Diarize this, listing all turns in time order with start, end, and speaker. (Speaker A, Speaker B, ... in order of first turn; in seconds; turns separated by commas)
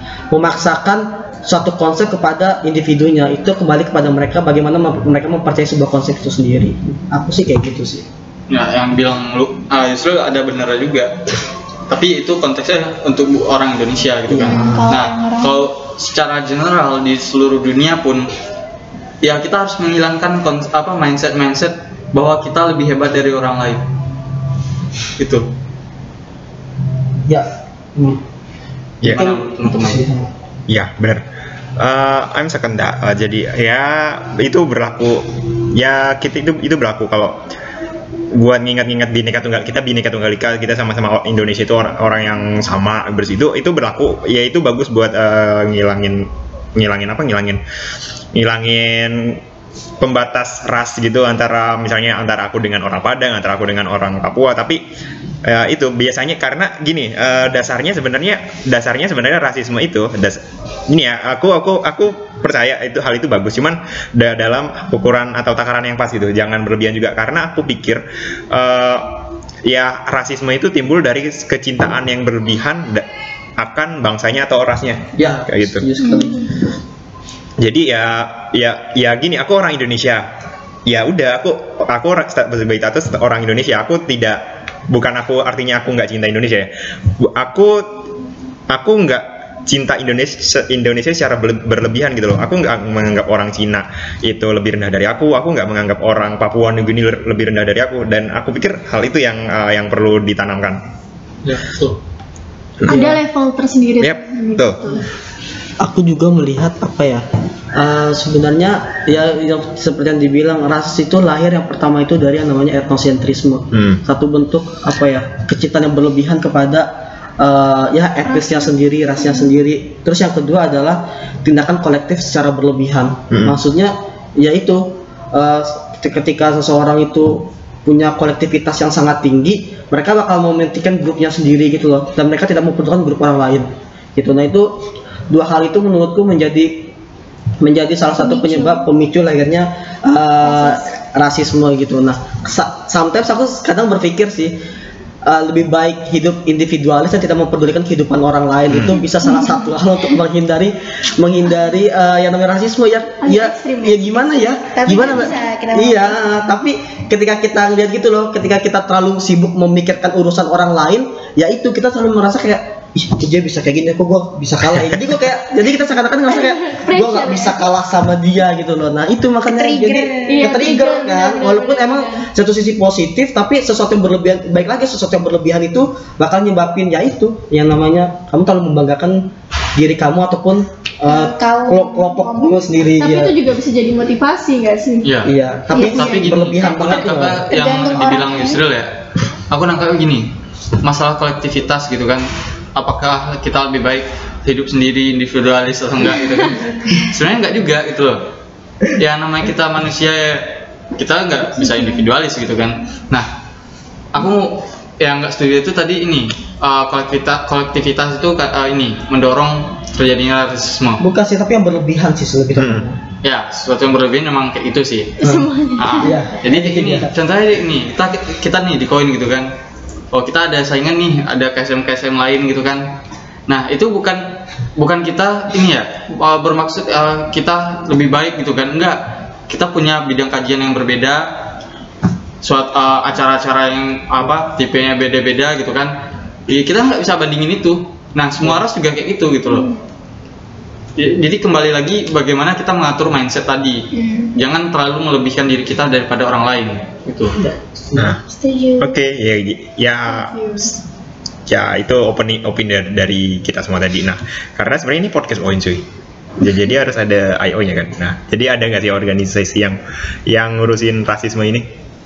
Speaker A: 0.3-8.1, Speaker B: 8.5-11.2, Speaker B: 11.9-18.3, Speaker A: 14.3-14.9, Speaker C: 14.4-15.7, Speaker B: 19.2-23.9, Speaker B: 25.2-25.5, Speaker A: 27.3-28.2, Speaker B: 29.0-30.1, Speaker A: 29.1-30.3, Speaker D: 30.7-31.2, Speaker D: 31.8-37.4, Speaker D: 38.3-47.6, Speaker D: 48.4-49.4, Speaker D: 50.0-54.8, Speaker D: 55.4-73.1, Speaker D: 73.6-75.8, Speaker A: 75.2-76.5, Speaker D: 77.6-80.3, Speaker D: 80.9-88.0, Speaker D: 88.7-100.8, Speaker B: 101.5-102.0, Speaker D: 102.8-103.1, Speaker E: 102.9-105.1, Speaker A: 102.9-103.2, Speaker D: 104.0-104.8, Speaker A: 105.8-134.7, Speaker D: 113.7-114.0, Speaker D: 123.3-123.6, Speaker A: 135.3-136.9, Speaker A: 137.6-144.6, Speaker C: 138.3-138.8, Speaker C: 140.5-140.8, Speaker A: 145.2-183.3, Speaker D: 148.7-149.0, Speaker E: 153.2-154.5, Speaker C: 154.8-156.5, Speaker E: 166.3-167.6, Speaker C: 169.5-170.6, Speaker E: 170.3-172.3, Speaker C: 181.1-182.6, Speaker E: 183.0-185.1, Speaker B: 185.0-188.9, Speaker A: 185.2-187.5, Speaker C: 185.7-186.0, Speaker E: 185.8-186.0, Speaker C: 187.5-188.6, Speaker B: 189.5-190.3, Speaker B: 190.8-198.2, Speaker B: 198.9-203.3, Speaker B: 204.1-211.0, Speaker A: 211.0-213.0, Speaker D: 212.6-212.9, Speaker B: 213.2-215.2, Speaker E: 215.2-216.1, Speaker A: 215.2-217.1, Speaker B: 215.8-219.5, Speaker B: 220.1-222.9, Speaker B: 223.5-231.3, Speaker B: 232.4-235.9, Speaker B: 236.5-239.7, Speaker B: 241.0-247.4, Speaker C: 244.0-244.3, Speaker A: 247.4-248.1, Speaker D: 248.0-248.2, Speaker C: 248.4-248.9, Speaker D: 248.8-250.7, Speaker E: 250.1-250.7, Speaker D: 251.5-255.9, Speaker D: 256.4-261.7